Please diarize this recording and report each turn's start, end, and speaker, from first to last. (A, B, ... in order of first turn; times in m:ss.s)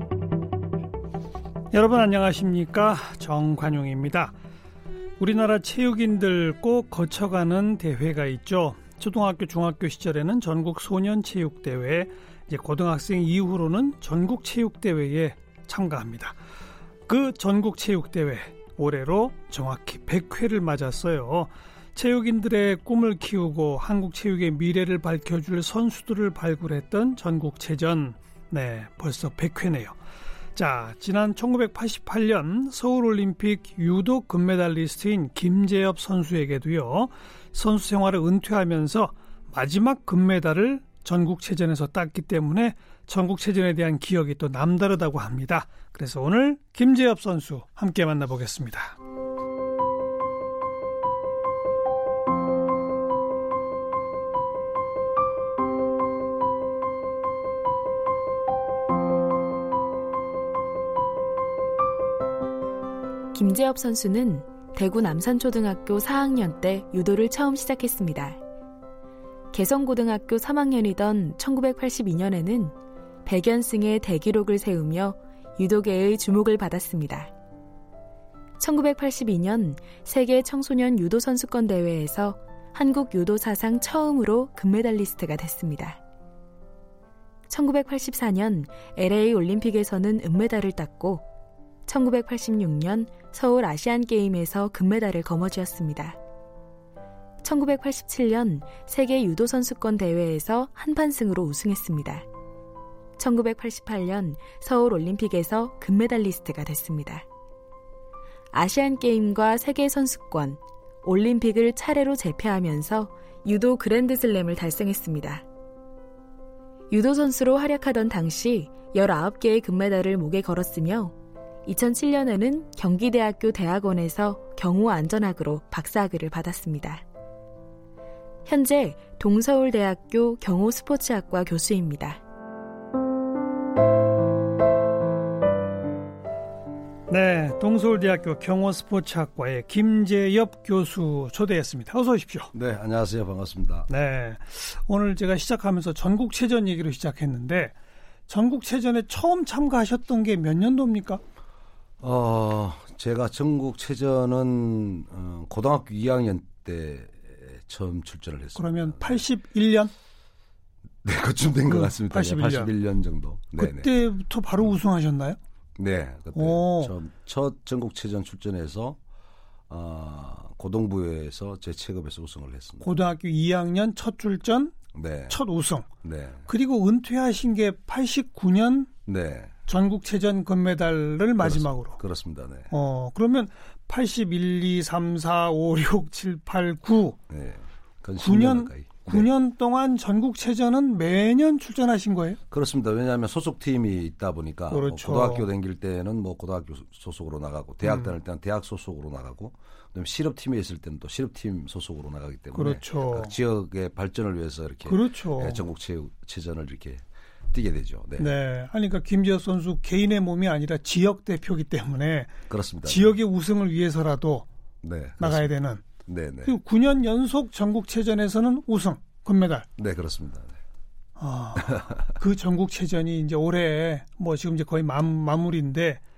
0:01.7-0:04.3 A
0:05.2-0:16.4 A
0:17.1-0:30.0 A
0:30.6-0:49.0 A
1:03.3-1:08.4 B
1:09.5-1:12.8 B
1:13.2-1:17.3 B
1:18.6-1:26.0 B
1:27.5-1:31.2 B
1:31.9-1:36.2 B
1:37.4-1:42.2 B
1:43.2-1:47.2 B
1:48.5-1:55.4 B
1:56.9-2:01.1 B
2:01.7-2:07.0 B
2:08.5-2:12.2 B
2:17.1-2:22.5 A
2:22.5-2:23.9 C
2:23.9-2:27.7 A
2:28.3-2:31.2 A
2:32.0-2:39.2 C
2:38.6-2:39.9 A
2:41.0-2:43.9 C
2:41.7-2:42.7 A
2:43.6-2:45.4 A
2:45.8-2:49.0 C
2:46.3-2:46.9 A
2:49.7-2:52.8 C
2:52.8-2:54.8 A
2:54.9-2:55.4 C
2:55.3-2:55.9 A
2:56.0-2:56.5 C
2:56.5-2:58.9 A
2:59.1-2:59.5 C
2:59.7-3:02.0 A
3:01.4-3:02.7 C
3:02.7-3:07.2 A
3:07.3-3:09.3 C
3:08.2-3:12.4 A
3:12.5-3:28.3 C
3:14.7-3:15.5 A
3:17.8-3:18.1 A
3:22.5-3:23.3 A
3:24.8-3:25.7 A
3:28.2-3:32.3 A
3:32.5-3:33.1 C
3:32.8-3:34.5 A
3:34.8-3:36.5 C
3:35.2-3:35.8 A
3:36.4-3:39.7 A
3:39.8-3:40.6 C
3:41.2-3:46.0 A
3:41.7-3:42.1 C